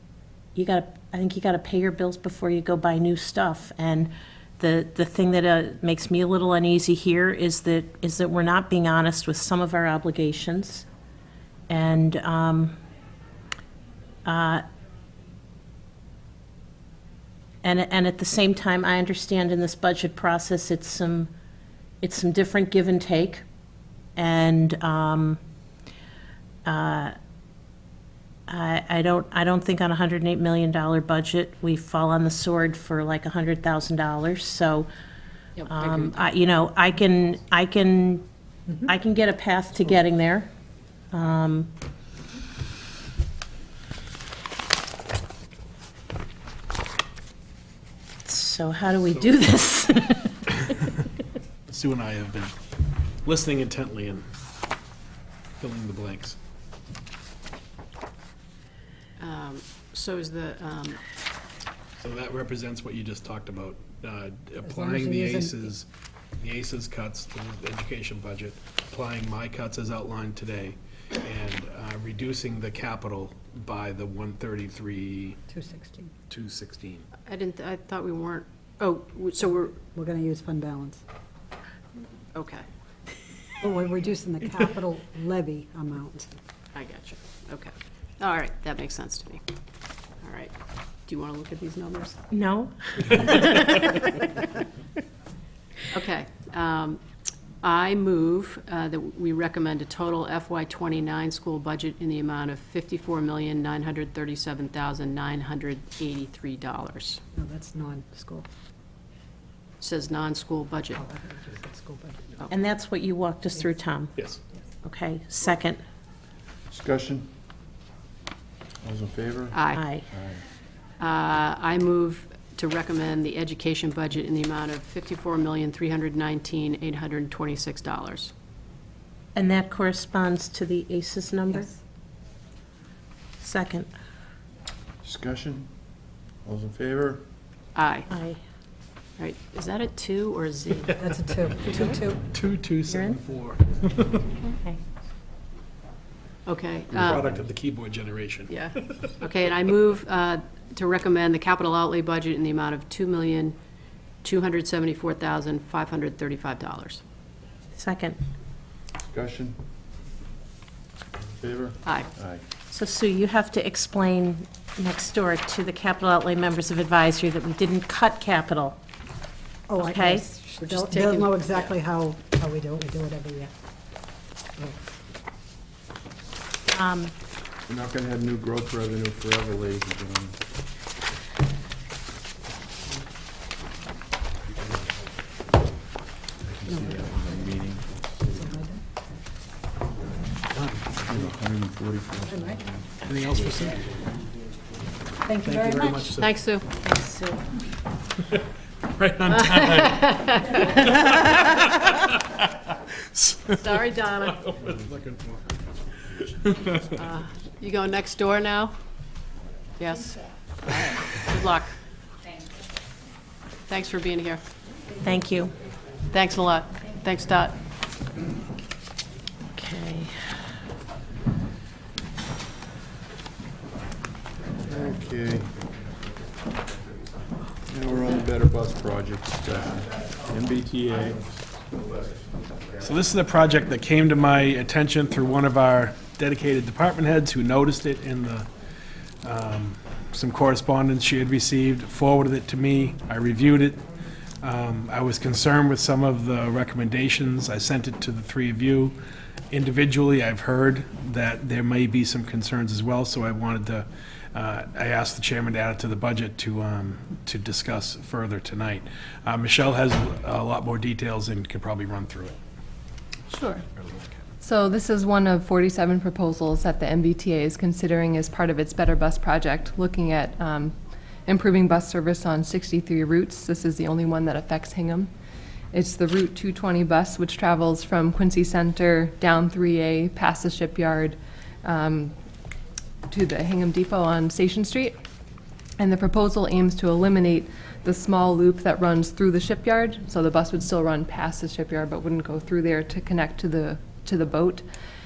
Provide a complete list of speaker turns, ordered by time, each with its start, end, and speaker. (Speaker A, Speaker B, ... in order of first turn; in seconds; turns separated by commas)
Speaker A: 0.5-10.9, Speaker A: 11.7-12.8, Speaker A: 14.2-14.6, Speaker A: 17.6-21.3, Speaker A: 22.0-23.4, Speaker A: 24.2-25.4, Speaker A: 26.6-27.1, Speaker A: 28.5-34.9, Speaker B: 35.6-36.1, Speaker A: 35.6-38.2, Speaker A: 38.8-40.5, Speaker A: 41.1-41.7, Speaker A: 48.2-50.4, Speaker C: 51.7-52.5, Speaker C: 53.2-54.3, Speaker C: 55.6-56.4, Speaker B: 59.2-61.0, Speaker C: 62.0-65.8, Speaker D: 64.6-65.7, Speaker C: 66.4-75.4, Speaker D: 75.5-76.1, Speaker C: 76.3-77.0, Speaker B: 77.2-79.8, Speaker D: 79.9-81.0, Speaker B: 82.3-82.6, Speaker D: 83.6-86.3, Speaker B: 86.7-89.4, Speaker B: 90.2-90.5, Speaker B: 91.0-92.2, Speaker A: 92.3-94.1, Speaker B: 93.4-93.8, Speaker B: 95.9-97.0, Speaker B: 97.6-107.2, Speaker D: 107.3-108.5, Speaker B: 109.8-111.0, Speaker D: 111.0-112.4, Speaker A: 112.5-114.1, Speaker C: 114.2-114.4, Speaker A: 114.8-115.8, Speaker E: 116.7-117.3, Speaker E: 118.8-120.4, Speaker B: 119.5-119.8, Speaker A: 119.7-120.0, Speaker B: 121.0-128.3, Speaker A: 129.3-131.7, Speaker D: 131.5-131.8, Speaker A: 133.4-133.9, Speaker E: 135.0-135.7, Speaker E: 136.4-137.2, Speaker B: 137.8-138.1, Speaker A: 138.1-138.4, Speaker B: 139.2-140.9, Speaker C: 140.9-141.2, Speaker D: 141.0-142.2, Speaker C: 142.3-144.3, Speaker A: 142.9-143.2, Speaker B: 146.5-147.2, Speaker E: 146.9-147.5, Speaker C: 147.1-149.1, Speaker B: 148.5-153.6, Speaker B: 154.2-157.0, Speaker A: 157.8-158.2, Speaker E: 159.1-159.6, Speaker E: 161.4-162.4, Speaker A: 162.7-168.8, Speaker D: 169.7-173.5, Speaker A: 169.8-170.3, Speaker B: 170.6-171.7, Speaker A: 176.7-177.1, Speaker E: 177.7-180.4, Speaker E: 186.4-188.5, Speaker D: 186.7-187.0, Speaker D: 188.3-188.8, Speaker C: 190.5-191.0, Speaker E: 191.0-192.9, Speaker D: 192.3-192.6, Speaker C: 193.0-193.9, Speaker D: 195.2-196.1, Speaker C: 195.3-196.4, Speaker B: 196.2-196.7, Speaker A: 196.8-197.4, Speaker C: 199.0-200.1, Speaker B: 199.3-200.9, Speaker C: 200.8-202.5, Speaker C: 203.1-203.8, Speaker B: 203.6-204.4, Speaker C: 204.3-205.4, Speaker C: 206.2-206.8, Speaker B: 207.0-208.8, Speaker B: 209.8-211.8, Speaker B: 213.7-214.4, Speaker A: 215.0-215.5, Speaker B: 216.1-217.6, Speaker A: 219.6-220.1, Speaker E: 224.6-225.6, Speaker E: 227.7-231.4, Speaker C: 232.8-238.5, Speaker C: 239.2-243.9, Speaker C: 244.4-249.0, Speaker C: 249.5-262.4, Speaker F: 263.3-263.6, Speaker C: 263.8-264.1, Speaker F: 264.4-270.8, Speaker F: 271.2-275.1, Speaker F: 275.7-282.1, Speaker F: 283.1-285.0, Speaker F: 285.8-294.6